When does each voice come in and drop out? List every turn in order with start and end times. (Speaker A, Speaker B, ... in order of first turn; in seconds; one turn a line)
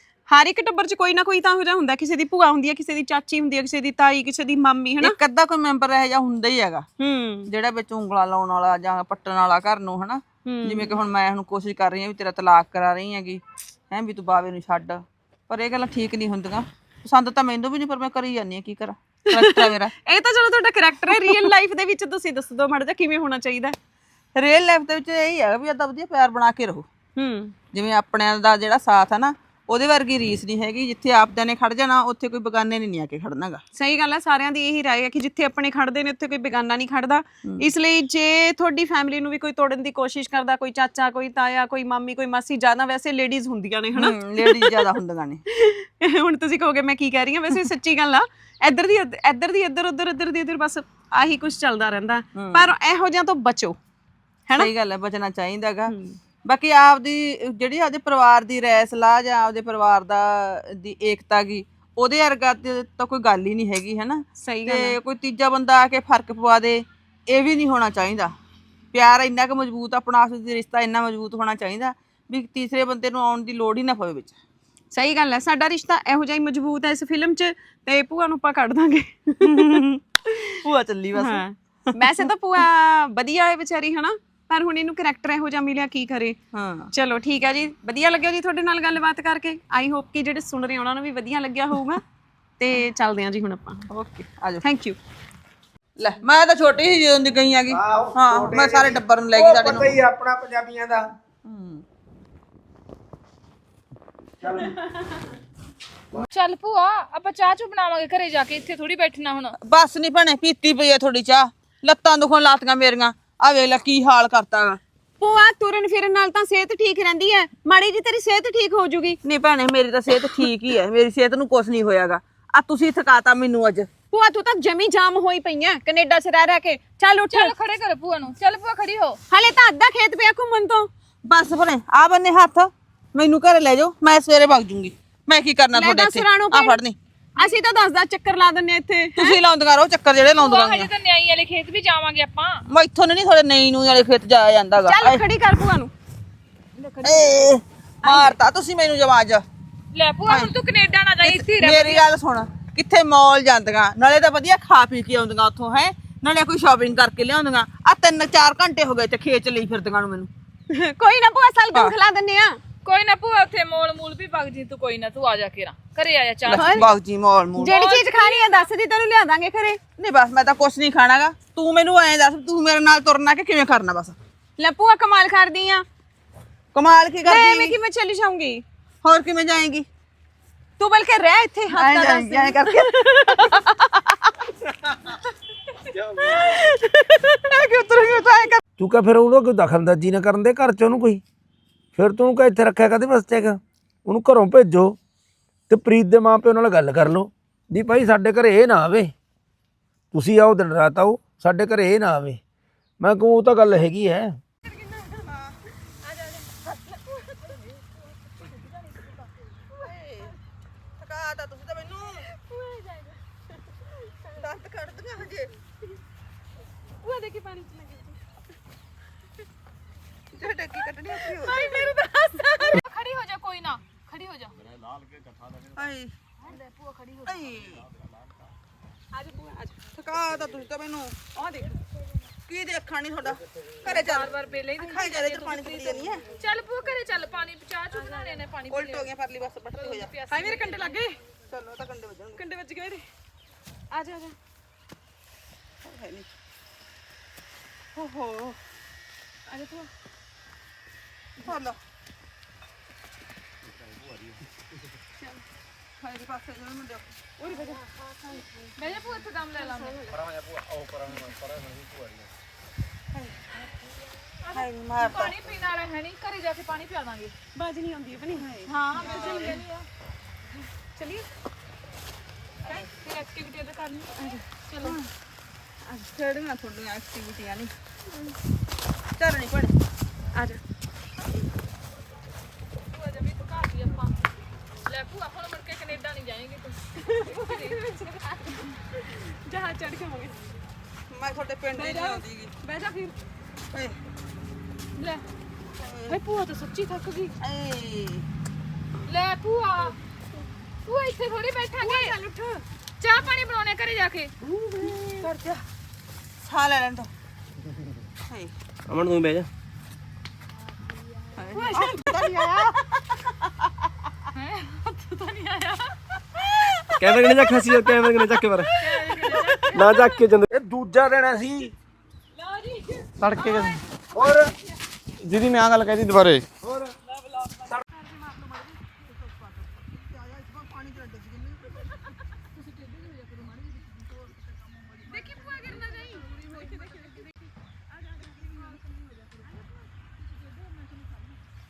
Speaker A: 0.3-5.2
Speaker B: 5.0-6.8
Speaker A: 7.0-7.5
Speaker B: 7.5-19.9
Speaker A: 10.4-11.0
Speaker A: 19.3-23.7
Speaker B: 24.3-26.9
Speaker A: 27.1-27.5
Speaker B: 27.7-33.6
Speaker A: 33.8-44.9
Speaker B: 43.9-45.4
Speaker A: 45.5-53.8
Speaker B: 52.3-52.7
Speaker B: 54.5-55.9
Speaker A: 55.9-56.2
Speaker B: 56.4-68.3
Speaker A: 64.4-65.0
Speaker B: 68.9-74.3
Speaker A: 74.9-79.8
Speaker B: 79.5-80.0
Speaker B: 80.6-82.2
Speaker A: 81.1-86.4
Speaker B: 86.5-86.9
Speaker A: 86.9-92.0
Speaker A: 92.6-93.8
Speaker B: 93.9-94.6
Speaker A: 94.6-95.0
Speaker B: 96.0-99.9
Speaker C: 97.7-101.0
Speaker B: 101.4-101.8
Speaker C: 104.4-104.7
Speaker D: 106.3-109.5
Speaker B: 109.6-114.8
Speaker A: 115.2-119.2
Speaker B: 119.2-123.9
Speaker A: 124.1-127.5
Speaker D: 127.3-129.2
Speaker A: 129.3-130.9
Speaker B: 131.2-137.0
Speaker A: 135.7-136.8
Speaker A: 137.4-139.4
Speaker B: 139.2-140.9
Speaker D: 140.3-142.6
Speaker B: 142.7-145.2
Speaker A: 144.8-145.9
Speaker D: 146.8-147.4
Speaker B: 147.0-149.4
Speaker A: 148.0-148.4
Speaker D: 149.9-152.1
Speaker B: 150.3-150.5
Speaker B: 151.2-160.3
Speaker A: 160.7-162.6
Speaker D: 162.8-166.8
Speaker B: 166.4-167.7
Speaker A: 166.5-166.9
Speaker D: 167.6-168.7
Speaker A: 167.6-169.8
Speaker B: 170.0-174.2
Speaker A: 174.6-175.8
Speaker B: 176.7-177.8
Speaker A: 177.2-178.6
Speaker B: 179.0-179.9
Speaker A: 180.8-184.1
Speaker B: 181.7-183.4
Speaker A: 186.0-188.5
Speaker B: 187.5-188.6
Speaker C: 188.8-191.2
Speaker C: 191.9-195.0
Speaker C: 195.7-199.1
Speaker C: 200.1-202.4
Speaker C: 203.0-204.3
Speaker B: 205.2-205.5
Speaker B: 209.7-210.3
Speaker B: 211.0-212.2
Speaker A: 212.5-212.8
Speaker B: 214.3-215.5
Speaker A: 217.0-218.1
Speaker B: 220.3-221.9
Speaker A: 220.8-222.8
Speaker D: 222.7-224.5
Speaker B: 225.7-226.1
Speaker D: 226.5-226.9
Speaker B: 227.2-227.9
Speaker A: 229.1-230.0
Speaker B: 230.0-231.2
Speaker A: 231.3-231.8
Speaker B: 232.5-236.2
Speaker D: 233.8-239.1
Speaker B: 238.7-240.1
Speaker D: 239.7-241.0
Speaker A: 240.3-241.2
Speaker B: 241.5-242.4
Speaker A: 242.3-243.0
Speaker A: 243.9-244.3
Speaker B: 245.8-246.3
Speaker B: 247.9-248.6
Speaker A: 249.5-249.8
Speaker B: 251.4-251.8
Speaker B: 256.0-257.8
Speaker D: 258.7-260.0
Speaker D: 264.4-267.3
Speaker B: 264.5-265.4
Speaker A: 267.5-268.5
Speaker B: 268.4-269.6
Speaker D: 268.6-269.8
Speaker A: 269.0-269.6
Speaker A: 270.9-271.2
Speaker D: 272.6-275.0
Speaker A: 274.2-274.4
Speaker B: 275.8-277.7
Speaker B: 279.2-279.7
Speaker A: 280.3-280.6
Speaker D: 282.9-284.2
Speaker D: 284.9-287.8
Speaker A: 287.0-288.2
Speaker A: 289.0-290.4
Speaker B: 291.1-292.5
Speaker A: 291.7-293.1
Speaker B: 293.7-294.0
Speaker D: 295.0-295.2
Speaker B: 295.8-296.2
Speaker A: 296.1-297.3
Speaker B: 297.4-298.2
Speaker D: 299.1-299.9
Speaker D: 300.8-302.1
Speaker A: 301.8-302.6
Speaker D: 303.0-304.3
Speaker B: 304.6-305.6
Speaker B: 306.4-307.1
Speaker E: 308.9-309.5
Speaker B: 311.4-312.7
Speaker A: 311.6-312.3
Speaker D: 314.3-315.9
Speaker E: 317.0-318.8
Speaker D: 318.8-319.6
Speaker A: 318.9-319.8
Speaker E: 319.7-320.5
Speaker C: 320.5-321.7
Speaker F: 323.2-323.8
Speaker C: 324.1-324.4
Speaker F: 325.2-326.4
Speaker C: 326.6-326.9
Speaker A: 335.1-336.9
Speaker D: 335.1-337.1